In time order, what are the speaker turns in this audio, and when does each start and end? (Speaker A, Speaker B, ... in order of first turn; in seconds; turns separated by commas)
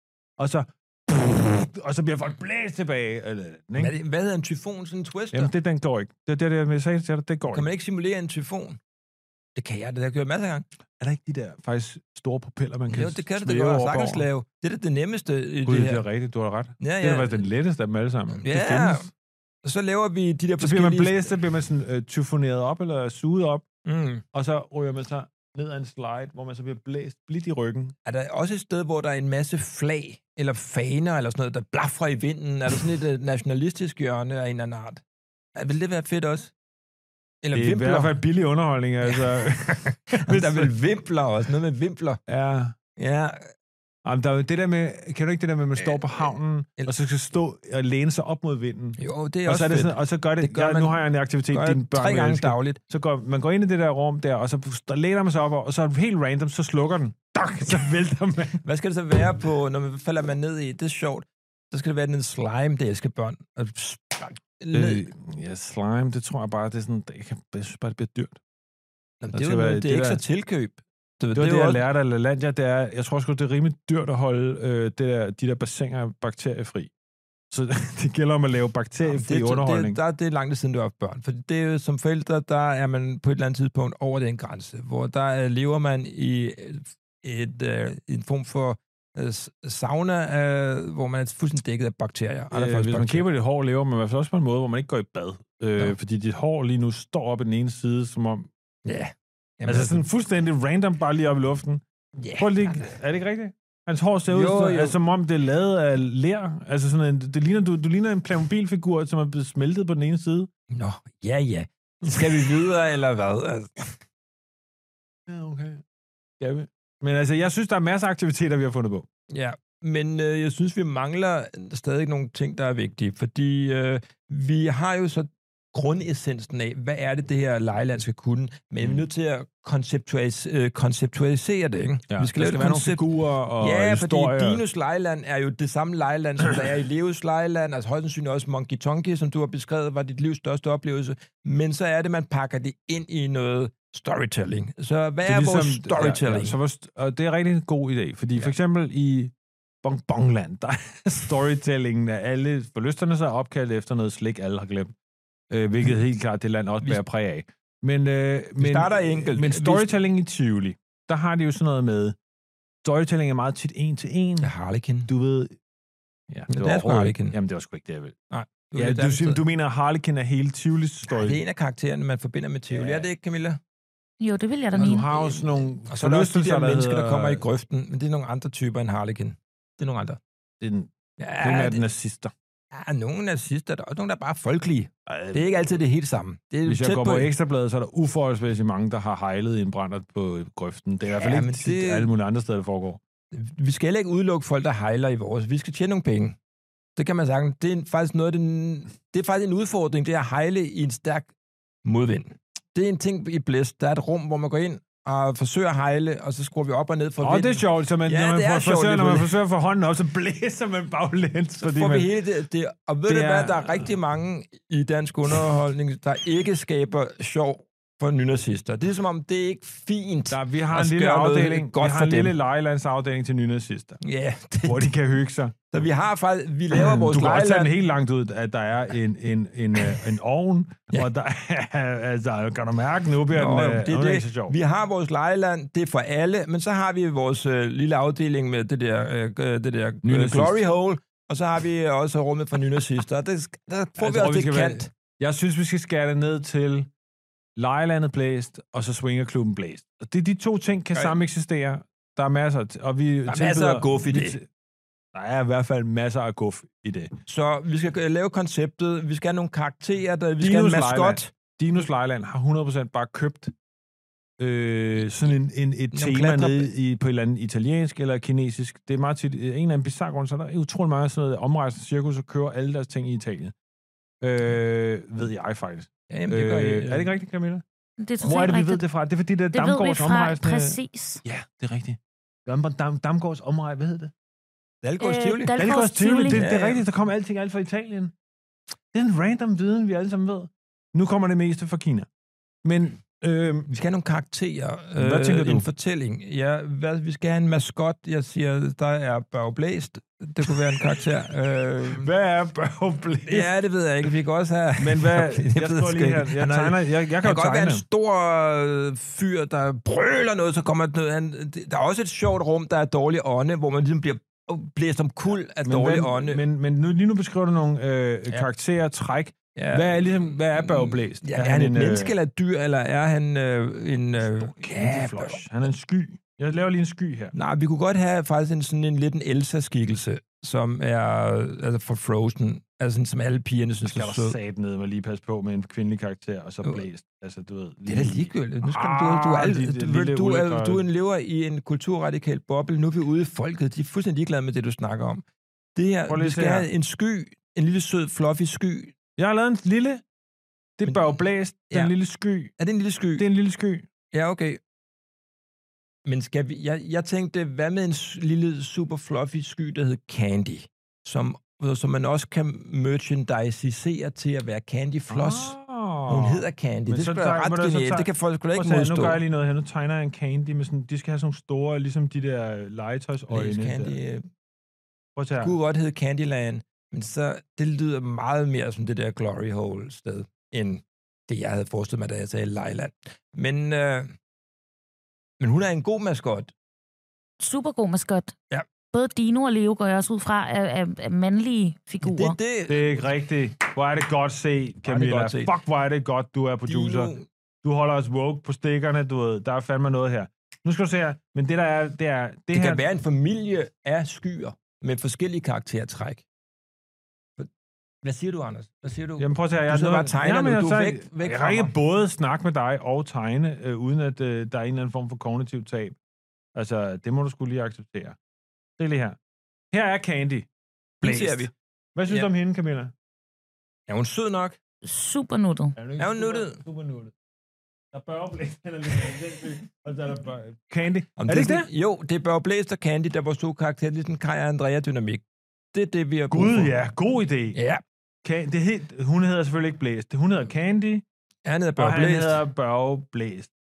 Speaker A: 0.4-3.9, Speaker B: 3.8-5.5, Speaker A: 5.3-7.7, Speaker B: 7.5-8.8, Speaker B: 9.6-10.6, Speaker A: 11.0-14.2, Speaker B: 12.9-16.0, Speaker A: 15.7-19.1, Speaker B: 16.8-17.4, Speaker B: 18.4-19.1, Speaker B: 19.6-21.3, Speaker A: 20.6-23.6, Speaker B: 23.8-24.2, Speaker A: 24.3-27.9, Speaker B: 28.1-35.0, Speaker B: 35.5-36.5, Speaker B: 37.4-38.1, Speaker A: 37.5-40.7, Speaker B: 39.0-42.2, Speaker A: 42.3-42.7, Speaker B: 43.0-43.5, Speaker A: 44.0-58.6, Speaker B: 45.8-46.9, Speaker B: 49.0-52.8, Speaker B: 58.6-65.1, Speaker A: 64.7-68.4, Speaker B: 69.2-71.8, Speaker A: 69.3-70.2, Speaker A: 71.3-76.9, Speaker A: 77.5-80.0, Speaker B: 79.1-93.2, Speaker A: 92.5-98.5, Speaker B: 98.8-100.0, Speaker A: 99.7-101.8, Speaker B: 102.2-102.9, Speaker A: 102.4-110.5, Speaker B: 104.3-104.9, Speaker B: 110.7-114.0, Speaker A: 115.3-115.8, Speaker A: 116.4-119.0, Speaker B: 119.3-133.0, Speaker A: 132.1-134.6, Speaker B: 133.6-146.6, Speaker A: 145.2-154.9, Speaker A: 155.5-162.2, Speaker B: 158.6-159.9, Speaker A: 162.8-164.5, Speaker B: 164.4-165.1, Speaker A: 165.1-165.6, Speaker A: 166.3-168.2, Speaker B: 166.5-167.3, Speaker B: 168.3-169.4, Speaker A: 168.7-171.4, Speaker B: 171.1-173.6, Speaker A: 172.7-173.1, Speaker C: 174.2-175.1, Speaker A: 174.7-177.4, Speaker B: 174.8-180.2, Speaker A: 180.6-182.3, Speaker B: 181.2-181.8, Speaker B: 182.7-187.3, Speaker A: 185.1-185.4, Speaker A: 186.6-193.0, Speaker B: 191.1-192.1, Speaker B: 193.3-196.4, Speaker B: 196.9-201.3, Speaker B: 201.8-209.3, Speaker A: 207.2-212.1, Speaker B: 211.6-222.3, Speaker A: 213.1-213.9, Speaker A: 220.3-224.0, Speaker B: 224.0-224.9, Speaker A: 224.6-225.6, Speaker B: 225.7-227.7, Speaker A: 226.7-234.5, Speaker B: 233.3-244.9, Speaker A: 240.0-240.6, Speaker A: 244.0-246.9, Speaker A: 247.6-254.4, Speaker B: 253.3-254.4, Speaker A: 255.1-257.1, Speaker B: 257.3-261.3, Speaker A: 260.4-263.5, Speaker A: 264.4-273.5, Speaker B: 265.9-266.7, Speaker A: 274.2-277.6, Speaker B: 276.1-277.1, Speaker C: 278.0-278.8, Speaker A: 278.2-284.1, Speaker C: 279.5-281.2, Speaker B: 284.8-285.6, Speaker C: 285.0-286.5, Speaker A: 285.6-288.1, Speaker B: 286.3-286.8, Speaker A: 288.9-292.1, Speaker A: 292.6-293.7, Speaker B: 293.7-302.1, Speaker A: 294.9-295.7, Speaker A: 301.9-303.5, Speaker B: 303.3-316.4, Speaker A: 304.8-307.8, Speaker A: 315.6-322.1, Speaker B: 319.6-325.4, Speaker A: 324.2-327.3, Speaker B: 327.3-334.4, Speaker A: 333.8-340.8, Speaker B: 337.9-345.2, Speaker B: 345.7-348.9, Speaker A: 346.1-346.7, Speaker A: 349.2-350.0, Speaker A: 350.8-352.5, Speaker B: 352.6-353.2, Speaker A: 353.2-353.9, Speaker B: 354.1-354.6, Speaker B: 356.1-365.6, Speaker A: 365.1-374.0, Speaker B: 366.1-369.2, Speaker B: 373.3-374.3, Speaker A: 375.1-375.5, Speaker B: 375.4-384.1, Speaker B: 385.4-386.5, Speaker C: 387.4-388.3, Speaker C: 388.9-392.4, Speaker B: 392.0-393.0, Speaker A: 392.7-402.8, Speaker B: 394.8-395.5, Speaker B: 396.7-397.3, Speaker B: 402.5-406.2, Speaker B: 408.0-411.7, Speaker A: 409.2-415.9, Speaker A: 416.5-418.2, Speaker A: 418.8-419.2, Speaker A: 419.7-420.5, Speaker B: 421.0-421.5, Speaker A: 421.0-422.9, Speaker B: 423.9-424.6, Speaker C: 424.8-425.8, Speaker A: 425.8-427.1, Speaker B: 426.0-426.6, Speaker A: 427.9-431.7, Speaker B: 431.2-436.7, Speaker A: 436.3-437.6, Speaker B: 437.5-437.8, Speaker A: 438.2-441.0, Speaker B: 441.4-442.4, Speaker A: 441.8-443.5